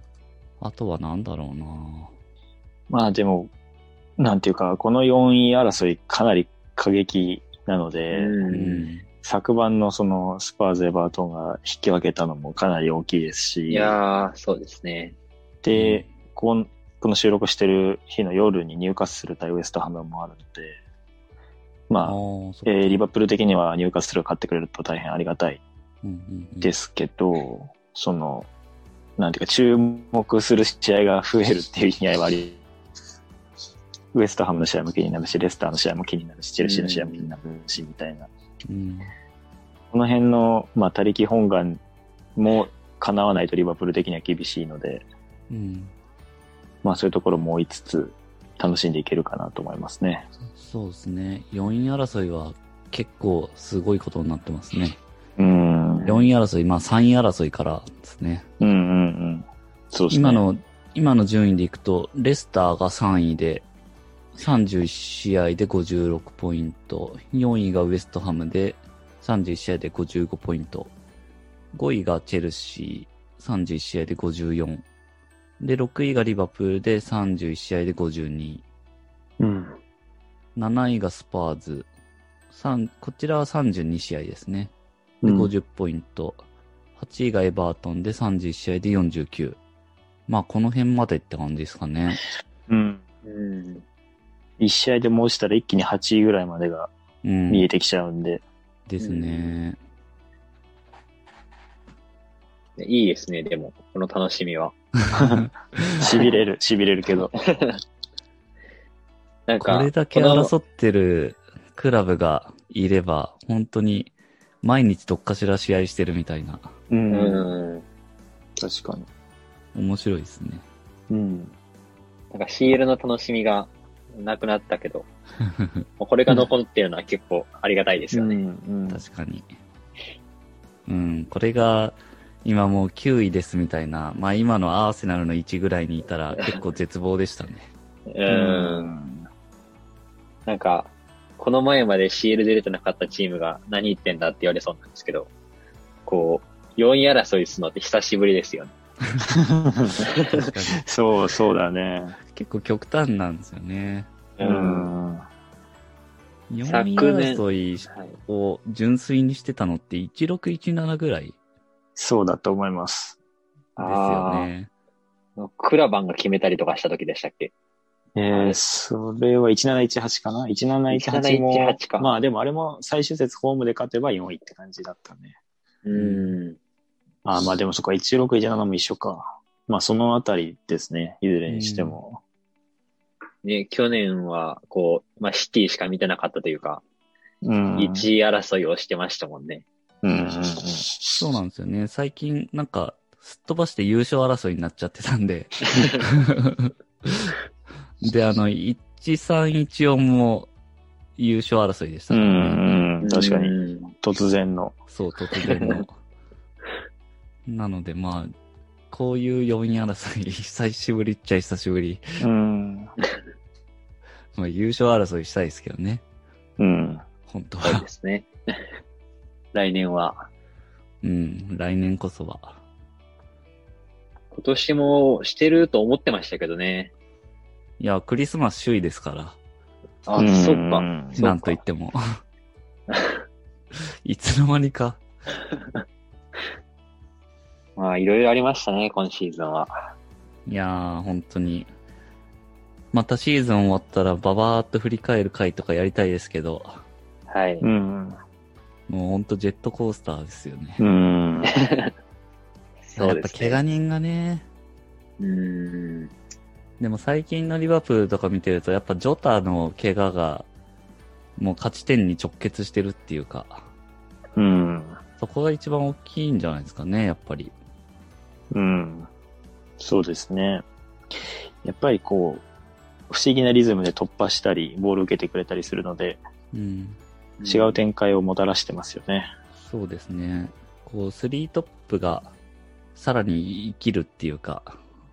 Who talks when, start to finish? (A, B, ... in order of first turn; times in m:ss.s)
0:00.6-0:02.1 A
0:02.9-0:03.5 B
0:04.2-0:08.4 B
0:08.1-0:08.9 C
0:08.5-0:09.1 A
0:09.2-0:14.0 B
0:13.7-0:15.2 C
0:15.6-0:20.8 B
0:15.7-0:16.1 A
0:21.9-0:25.6 B
0:22.0-0:23.0 A
0:26.0-0:26.7 A
0:26.6-0:28.5 B
0:29.2-0:32.6 B
0:34.1-0:38.3 B
0:36.6-0:37.3 C
0:38.7-0:39.1 A
0:39.9-0:41.8 B
0:42.4-0:45.0 B
0:45.5-0:45.9 A
0:46.8-0:50.3 B
0:50.6-0:55.0 A
0:55.4-0:56.1 B
0:55.9-0:56.3 C
0:56.1-0:58.4 A
0:58.6-1:00.4 B
1:00.1-1:03.6 A
1:04.4-1:10.9 A
1:11.7-1:14.8 A
1:15.6-1:18.6 A
1:19.4-1:19.8 B
1:20.6-1:21.9 A
1:22.5-1:26.4 A
1:25.2-1:25.5 B
1:27.0-1:29.6 A
1:30.3-1:32.2 A
1:32.7-1:33.0 B
1:33.2-1:33.8 C
1:34.6-1:36.9 B
1:37.2-1:37.7 A
1:37.5-1:38.4 B
1:38.9-1:39.8 A
1:39.0-1:39.6 C
1:42.8-1:44.7 C
1:45.1-1:46.0 A
1:45.2-1:45.4 B
1:46.0-1:47.3 B
1:47.3-1:47.8 C
1:49.5-1:50.5 C
1:49.6-1:56.7 A
1:56.9-1:57.5 B
1:57.1-1:57.8 C
1:58.6-1:59.1 B
1:59.7-2:00.6 A
2:01.1-2:01.5 B
2:02.3-2:05.1 C
2:06.0-2:08.4 C
2:08.1-2:09.0 B
2:08.9-2:09.5 A
2:10.8-2:17.7 A
2:18.1-2:18.9 C
2:18.3-2:19.3 B
2:20.4-2:25.3 C
2:26.0-2:28.7 C
2:29.3-2:30.0 B
2:30.0-2:30.5 C
2:30.3-2:30.8 A
2:30.8-2:32.2 B
2:32.3-2:34.1 A
2:34.4-2:34.9 C
2:34.4-2:35.2 B
2:36.5-2:41.4 A
2:36.6-2:38.2 C
2:42.0-2:43.2 B
2:43.8-2:44.5 C
2:43.8-2:44.7 A
2:45.4-2:47.5 C
2:48.2-2:55.4 B
2:48.3-2:48.6 C
2:50.9-2:52.1 C
2:55.8-2:56.6 C
2:55.9-2:56.4 A
2:57.2-3:02.2 B
3:01.5-3:02.0 A
3:03.4-3:06.8 C
3:07.4-3:08.1 B
3:07.8-3:09.6 C
3:10.0-3:11.0 B
3:11.2-3:17.3 A
3:15.7-3:16.0 C
3:18.0-3:20.5 A
3:21.2-3:22.9 A
3:22.1-3:24.8 B
3:23.0-3:23.9 C
3:24.9-3:26.0 A
3:25.5-3:25.8 C
3:27.4-3:28.3 A
3:28.9-3:32.0 A
3:32.2-3:32.9 B
3:34.3-3:36.0 A
3:36.6-3:37.0 B
3:37.3-3:37.8 A
3:37.6-3:38.6 C
3:39.5-3:40.3 C
3:41.0-3:42.6 A
3:44.3-3:46.9 C
3:47.8-3:49.4 A
3:50.0-3:51.4 C
3:50.2-3:51.3 B
3:51.2-3:52.2 A
3:52.9-3:53.2 C
3:54.0-3:55.0 A
3:57.8-3:59.9 C
4:00.4-4:01.7 A
4:02.9-4:06.8 A
4:07.3-4:07.7 C
4:07.6-4:08.2 B
4:08.9-4:10.8 A
4:10.8-4:11.5 B
4:11.5-4:11.9 C
4:12.9-4:13.6 C
4:13.0-4:14.4 A
4:15.2-4:16.1 C
4:16.8-4:20.5 A
4:21.4-4:23.7 A
4:24.4-4:25.0 B
4:25.2-4:27.5 A
4:28.5-4:29.1 B
4:29.8-4:30.6 B
4:31.6-4:32.4 B
4:33.1-4:36.2 B
4:36.5-4:37.0 A
4:37.4-4:37.8 C
4:37.4-4:39.3 B
4:39.6-4:42.3 A
4:42.9-4:44.8 A